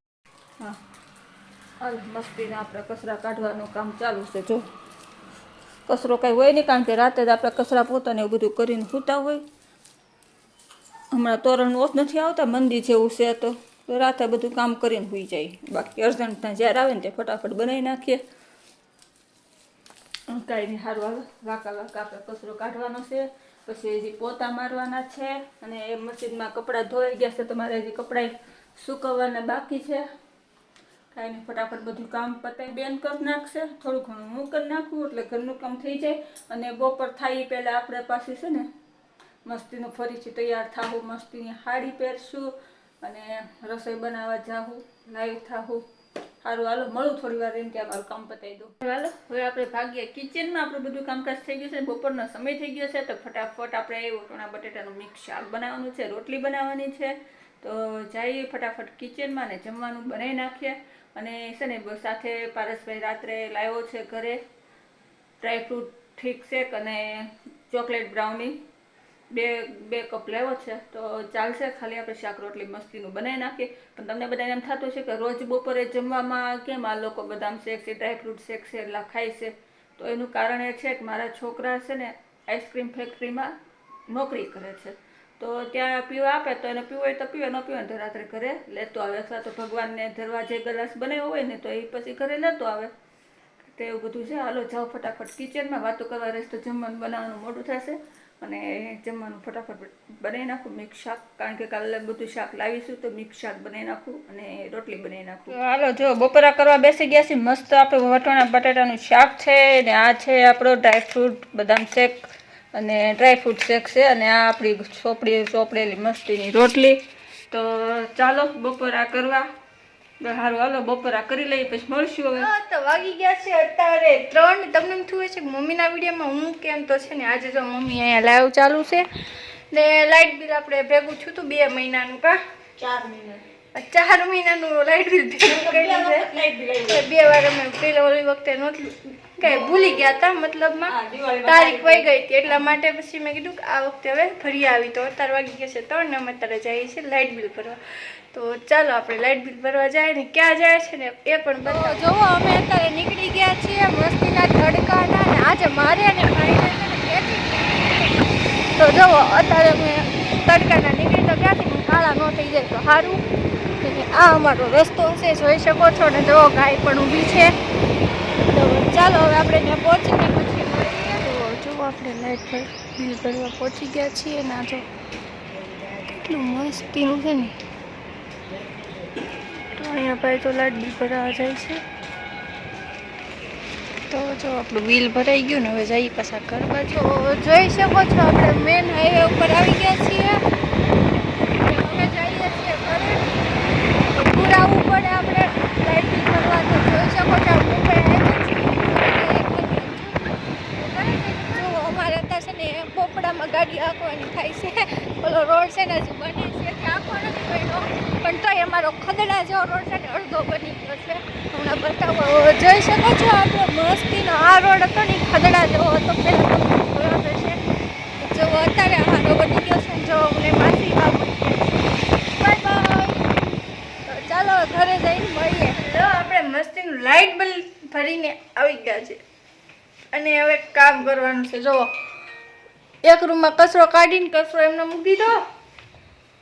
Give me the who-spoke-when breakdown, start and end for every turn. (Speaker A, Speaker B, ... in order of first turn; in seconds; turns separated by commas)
Speaker A: 1.8-4.7, Speaker A: 5.9-9.4, Speaker A: 11.1-18.2, Speaker A: 20.3-30.0, Speaker A: 31.1-38.7, Speaker A: 39.5-42.5, Speaker A: 43.0-45.8, Speaker A: 46.4-64.4, Speaker A: 65.4-68.6, Speaker A: 69.3-83.5, Speaker A: 84.1-92.9, Speaker A: 93.7-119.5, Speaker A: 120.2-122.5, Speaker B: 122.4-132.4, Speaker A: 132.8-133.4, Speaker B: 133.7-136.3, Speaker A: 135.4-137.1, Speaker B: 136.9-140.9, Speaker A: 140.9-142.7, Speaker B: 141.4-163.2, Speaker A: 151.7-152.1, Speaker B: 163.8-167.5, Speaker B: 168.4-174.9, Speaker B: 176.1-177.6, Speaker B: 179.7-181.8, Speaker B: 184.1-190.4, Speaker B: 191.5-217.6, Speaker B: 218.2-223.4, Speaker B: 224.1-229.2, Speaker B: 230.1-231.9, Speaker B: 233.0-235.4